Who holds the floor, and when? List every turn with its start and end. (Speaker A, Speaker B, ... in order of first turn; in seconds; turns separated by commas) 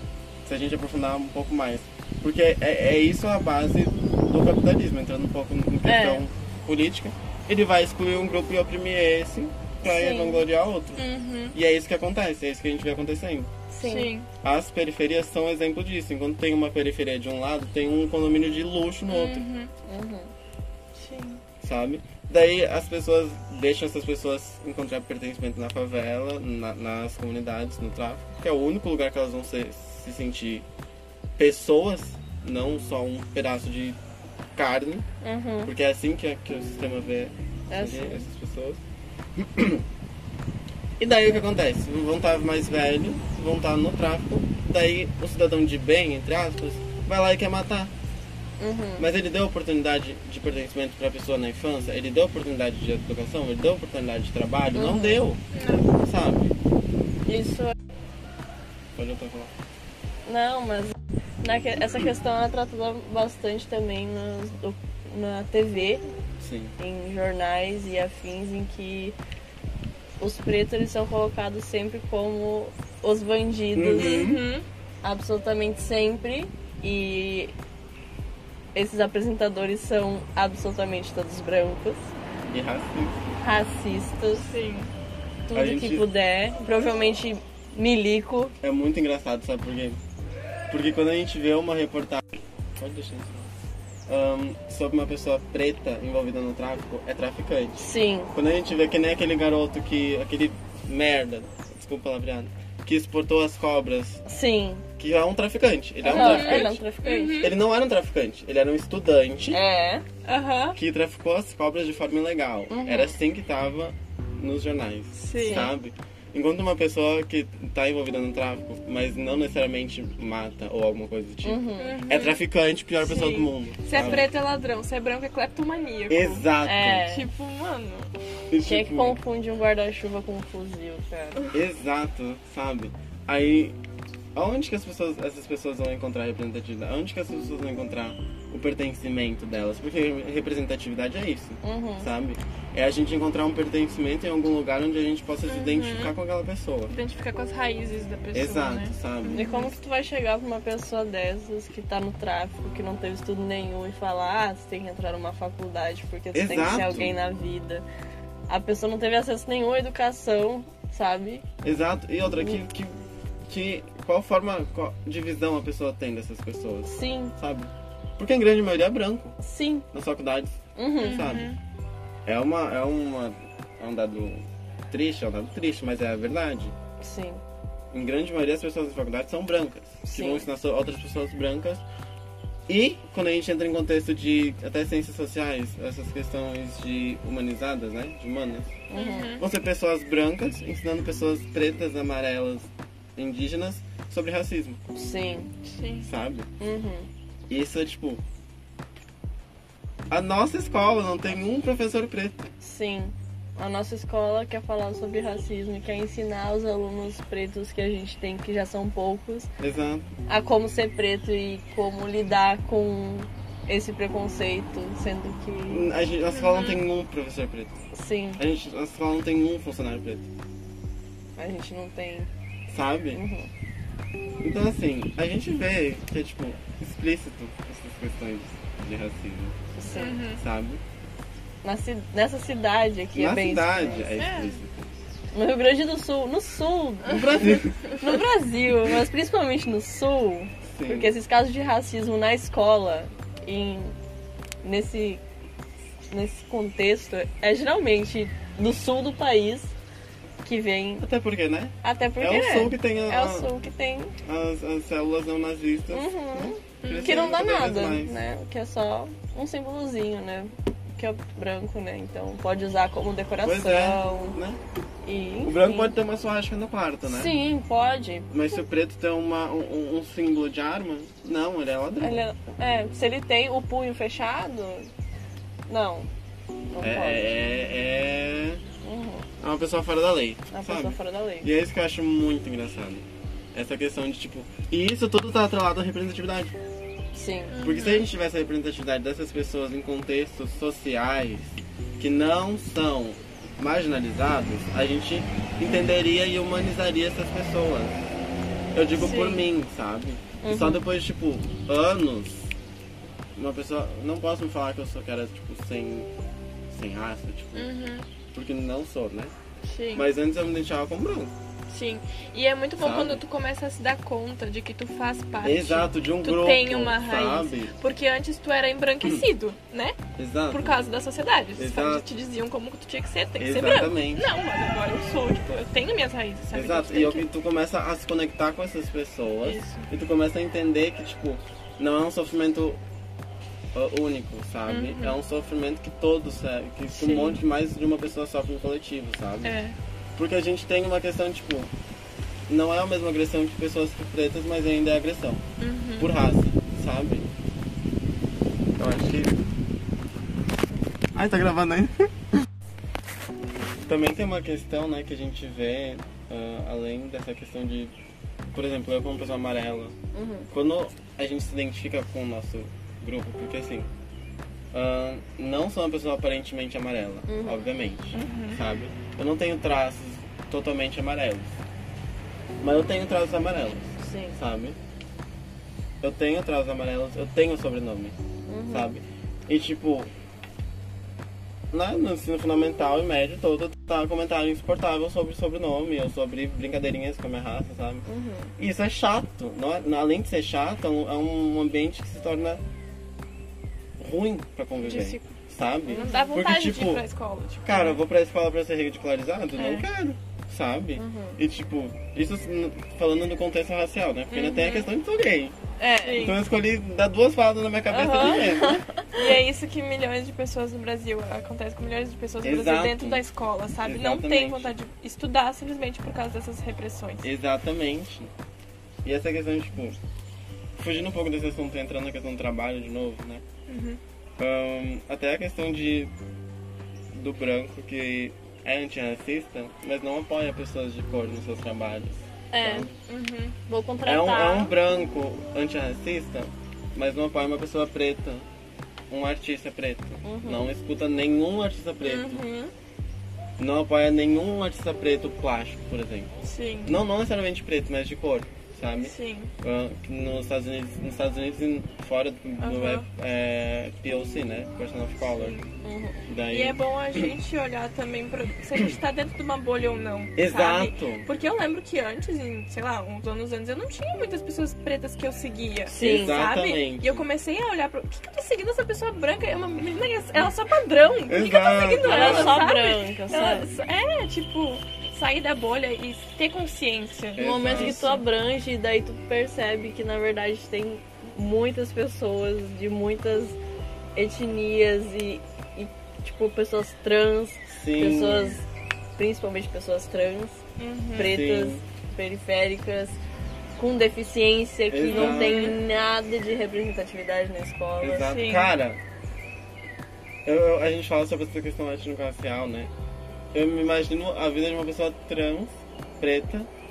Speaker A: 0.4-13.5, Speaker B: 5.8-6.2, Speaker B: 9.8-10.4, Speaker C: 11.0-11.5, Speaker B: 13.7-14.1, Speaker C: 13.8-14.3, Speaker A: 14.4-19.4, Speaker C: 19.1-19.7, Speaker B: 19.9-20.3, Speaker C: 20.9-21.4, Speaker A: 21.6-30.6, Speaker A: 31.4-34.0, Speaker A: 34.5-35.0, Speaker B: 35.2-35.7, Speaker A: 35.6-38.8, Speaker B: 37.7-38.3, Speaker A: 39.4-39.8, Speaker A: 41.0-47.9, Speaker B: 48.6-49.0, Speaker A: 49.0-55.4, Speaker B: 54.7-55.2, Speaker C: 55.5-55.9, Speaker A: 56.0-56.5, Speaker B: 57.2-57.7, Speaker A: 59.0-59.5, Speaker B: 60.2-66.0, Speaker A: 66.4-66.8, Speaker B: 66.8-69.2, Speaker B: 70.2-74.3, Speaker A: 73.7-74.4, Speaker C: 74.0-74.7, Speaker B: 75.0-77.5, Speaker B: 78.7-82.1, Speaker A: 82.5-83.4, Speaker B: 83.4-84.5, Speaker C: 84.5-84.9, Speaker B: 85.5-88.5, Speaker A: 85.5-86.1, Speaker A: 88.6-90.0, Speaker A: 90.7-93.5, Speaker A: 94.1-104.2, Speaker B: 97.8-98.3, Speaker B: 104.2-104.8, Speaker A: 105.0-106.8, Speaker B: 106.0-107.5, Speaker C: 106.0-107.5, Speaker A: 107.4-109.6, Speaker B: 109.5-110.0, Speaker C: 110.2-110.8, Speaker A: 110.7-124.3, Speaker B: 112.7-113.1, Speaker C: 115.2-115.7, Speaker B: 115.3-115.7, Speaker B: 121.4-122.0, Speaker C: 121.8-122.4, Speaker C: 123.0-128.1, Speaker A: 126.1-127.1, Speaker B: 126.6-127.3, Speaker A: 128.5-129.2, Speaker B: 128.6-131.5, Speaker A: 131.5-133.8, Speaker A: 134.3-146.9, Speaker B: 141.6-142.1, Speaker C: 145.4-146.2, Speaker C: 146.9-149.7, Speaker A: 148.3-149.8, Speaker B: 149.3-157.8, Speaker A: 156.3-157.1, Speaker B: 158.5-161.4, Speaker A: 161.6-169.4, Speaker B: 166.8-167.3, Speaker B: 169.4-169.8, Speaker A: 169.9-171.5, Speaker B: 170.8-171.3, Speaker C: 171.0-171.6, Speaker A: 172.2-176.7, Speaker B: 177.0-177.4, Speaker A: 177.9-181.8, Speaker B: 180.0-180.5, Speaker A: 182.7-188.8, Speaker B: 188.9-189.4, Speaker C: 188.9-189.4, Speaker A: 189.4-194.8, Speaker B: 194.9-195.5, Speaker C: 195.7-196.1, Speaker A: 196.0-196.5, Speaker B: 196.6-197.1, Speaker A: 197.5-198.2, Speaker A: 200.1-202.5, Speaker B: 202.6-209.5, Speaker A: 209.6-210.1, Speaker B: 210.3-215.9, Speaker A: 215.7-217.8, Speaker C: 216.3-216.8, Speaker B: 217.9-218.4, Speaker A: 218.4-220.3, Speaker B: 221.4-222.3, Speaker A: 222.7-223.2, Speaker B: 223.1-223.5, Speaker A: 224.4-229.6, Speaker B: 229.8-230.2, Speaker C: 229.9-230.4, Speaker A: 230.4-230.8, Speaker B: 231.6-234.0, Speaker A: 233.1-234.9, Speaker C: 234.2-234.6, Speaker B: 235.3-243.9, Speaker A: 237.0-238.2, Speaker A: 240.7-241.1, Speaker B: 244.6-245.2, Speaker B: 246.1-249.7, Speaker B: 250.4-251.0, Speaker A: 251.0-253.5, Speaker B: 251.8-254.2, Speaker A: 254.2-258.2, Speaker B: 255.9-264.4, Speaker C: 256.8-257.3, Speaker A: 263.4-264.6, Speaker B: 265.0-265.9, Speaker A: 265.4-267.3, Speaker B: 267.1-268.6, Speaker A: 268.3-272.2, Speaker B: 272.0-274.9, Speaker B: 275.7-276.1, Speaker B: 276.7-277.3, Speaker A: 276.8-278.6, Speaker B: 278.8-279.3, Speaker A: 279.4-286.5, Speaker B: 280.5-281.5, Speaker B: 287.1-287.6, Speaker C: 287.5-288.1, Speaker A: 287.6-298.0, Speaker C: 295.6-295.9, Speaker A: 298.7-302.5, Speaker C: 298.9-299.5, Speaker B: 300.4-300.9, Speaker A: 303.4-306.1, Speaker A: 306.7-307.7, Speaker C: 307.5-308.1, Speaker A: 308.3-309.3, Speaker C: 309.7-310.1, Speaker A: 309.9-311.3, Speaker C: 311.7-320.0, Speaker A: 312.8-313.2, Speaker A: 315.4-317.7, Speaker A: 320.2-320.9, Speaker C: 320.5-327.3, Speaker A: 321.6-322.1, Speaker A: 323.4-324.3, Speaker A: 326.5-332.8, Speaker C: 329.4-329.9, Speaker A: 333.7-339.6, Speaker C: 334.7-335.1, Speaker C: 336.9-337.4, Speaker C: 339.4-339.8, Speaker A: 340.1-341.7, Speaker A: 342.5-345.4, Speaker C: 345.6-346.1, Speaker A: 346.0-347.3, Speaker A: 348.8-349.4, Speaker A: 351.1-352.1, Speaker A: 353.9-357.9, Speaker A: 358.5-359.9, Speaker B: 360.1-360.5, Speaker A: 360.5-363.9, Speaker A: 364.7-371.6, Speaker B: 367.3-367.7, Speaker C: 368.1-368.6, Speaker A: 372.6-374.8, Speaker B: 374.0-374.4, Speaker A: 376.0-378.2, Speaker B: 378.5-378.9, Speaker A: 378.7-380.1, Speaker A: 381.7-388.1, Speaker B: 388.1-388.5, Speaker A: 388.6-392.6, Speaker A: 394.0-397.0, Speaker C: 394.8-395.2, Speaker C: 395.9-398.0, Speaker B: 395.9-396.2, Speaker A: 397.6-405.6, Speaker C: 399.6-399.9, Speaker B: 400.9-401.4, Speaker C: 404.3-404.9, Speaker C: 405.8-406.4, Speaker B: 405.9-406.2, Speaker A: 406.1-408.8, Speaker C: 407.9-417.3, Speaker B: 408.5-408.8, Speaker A: 412.4-413.2, Speaker A: 413.8-414.7, Speaker A: 417.2-418.3, Speaker A: 419.0-419.9, Speaker A: 420.8-423.4, Speaker C: 423.7-424.0, Speaker A: 424.4-426.1, Speaker A: 427.1-432.9, Speaker B: 432.5-432.9, Speaker C: 433.1-433.5, Speaker B: 433.6-434.7, Speaker A: 434.0-438.5, Speaker A: 439.1-442.4, Speaker B: 440.2-440.7, Speaker C: 442.0-442.7, Speaker A: 443.6-446.3, Speaker C: 446.4-447.0, Speaker A: 446.9-455.6, Speaker C: 449.0-449.5, Speaker C: 452.6-453.1, Speaker C: 455.2-455.7, Speaker B: 455.8-456.2, Speaker A: 456.2-457.3, Speaker C: 456.5-478.2, Speaker A: 460.3-461.3, Speaker B: 465.9-466.5, Speaker A: 466.0-467.3, Speaker A: 471.3-472.6, Speaker B: 472.0-473.7, Speaker A: 477.4-478.2, Speaker B: 477.4-483.6, Speaker B: 484.1-488.6, Speaker A: 487.7-488.6, Speaker B: 489.2-490.6, Speaker C: 490.8-491.3, Speaker B: 491.1-493.2, Speaker A: 491.2-491.8, Speaker B: 493.8-498.3, Speaker A: 494.9-495.8, Speaker C: 495.0-495.8, Speaker A: 498.0-499.0, Speaker C: 498.3-498.7, Speaker A: 500.4-502.9, Speaker A: 503.5-506.7